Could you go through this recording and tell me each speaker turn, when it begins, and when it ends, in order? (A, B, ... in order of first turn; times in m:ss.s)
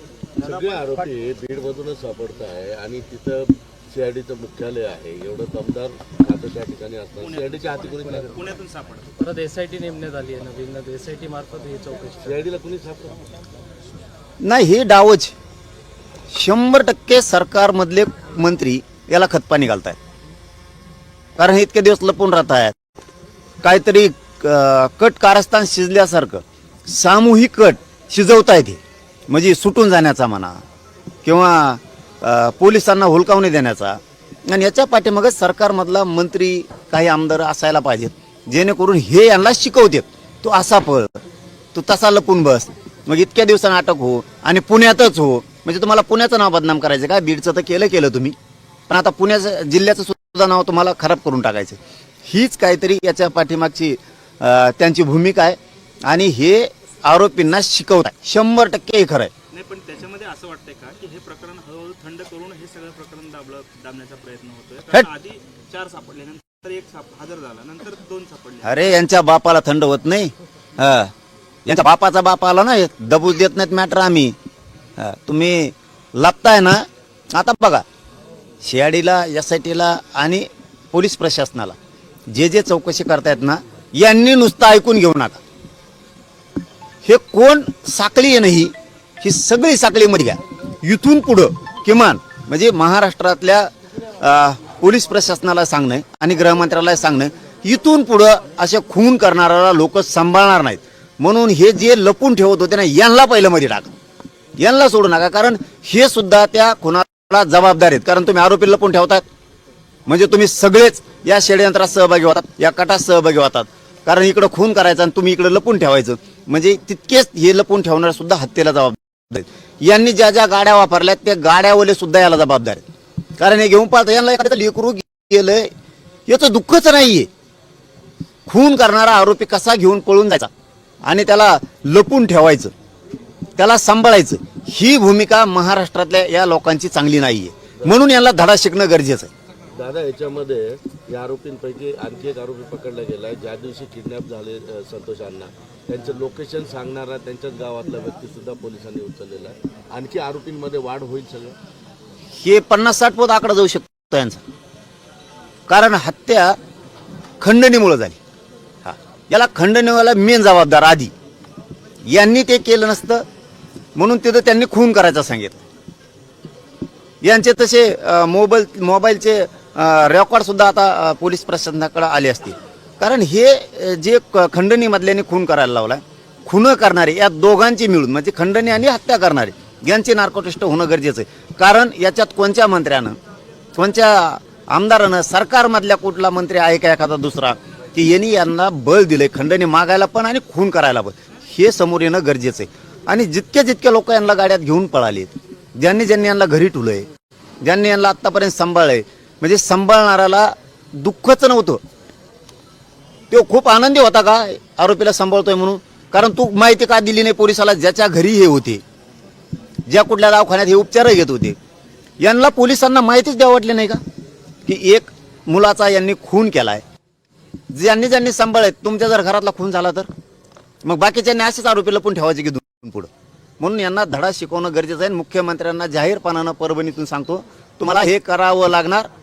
0:00.4-0:08.4 A
0:00.4-0:01.1 B
0:07.2-0:09.2 B
0:09.2-0:12.4 C
0:12.2-0:13.2 A
0:14.4-0:15.3 D
0:16.3-0:20.0 D
0:21.4-0:22.8 D
0:23.6-0:30.6 D
0:31.2-0:41.1 D
0:41.8-0:48.4 D
0:48.9-0:59.3 D
0:59.5-1:09.0 B
1:08.6-1:11.1 D
1:11.6-1:14.4 D
1:15.0-1:17.8 D
1:18.6-1:21.8 D
1:22.3-1:25.4 D
1:27.0-1:43.9 D
1:44.6-1:49.2 D
1:50.1-2:02.8 D
2:03.4-2:05.7 D
2:06.3-2:07.3 D
2:08.5-2:10.5 D
2:11.0-2:12.7 D
2:13.6-2:19.3 D
2:19.7-2:31.6 A
2:32.4-2:34.4 D
2:35.7-2:36.6 D
2:37.4-2:38.2 D
2:38.8-2:41.1 D
2:42.1-2:43.2 D
2:44.0-2:45.6 D
2:47.2-3:03.2 D
3:03.8-3:17.1 D
3:17.6-3:21.8 D
3:23.3-3:28.8 D
3:29.9-3:31.6 D
3:32.2-3:34.0 D
3:34.6-3:36.8 D
3:37.7-3:40.1 D
3:40.8-3:49.1 D